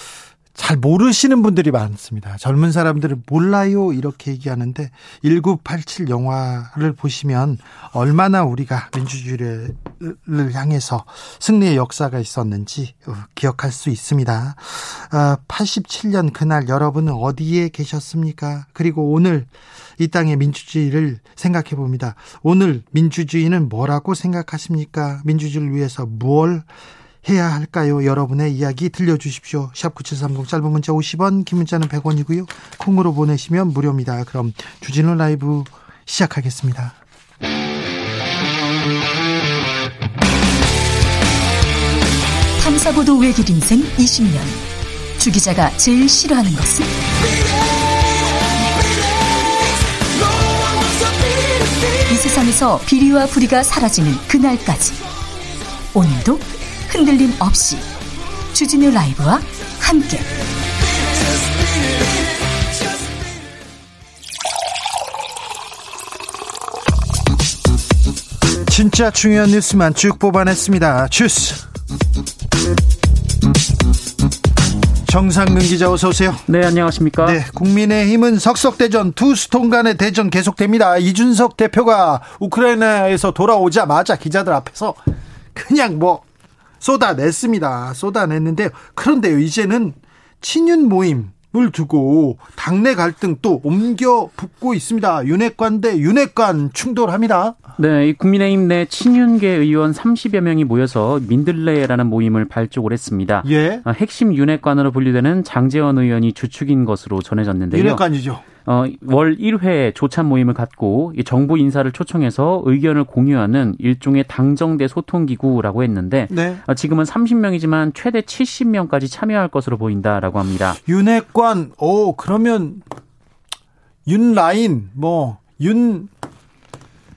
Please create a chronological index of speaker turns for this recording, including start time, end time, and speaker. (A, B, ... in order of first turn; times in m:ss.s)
0:00.6-0:26.7 A
0:27.2-0:37.0 A
0:42.6-0:44.6 B
0:45.2-0:47.0 B
0:52.1-0:55.0 B
0:55.9-0:57.8 B
0:58.5-1:00.3 B
1:08.7-1:11.6 A
1:15.0-1:16.4 A
1:16.5-1:17.4 C
1:17.2-1:25.0 A
1:25.5-1:26.2 A
1:26.8-1:37.6 A
1:37.8-1:48.0 C
1:43.4-1:43.8 A
1:47.7-1:48.4 A
1:48.6-2:00.8 C
1:56.3-1:56.6 A
2:00.8-2:02.8 A
2:04.1-2:06.1 A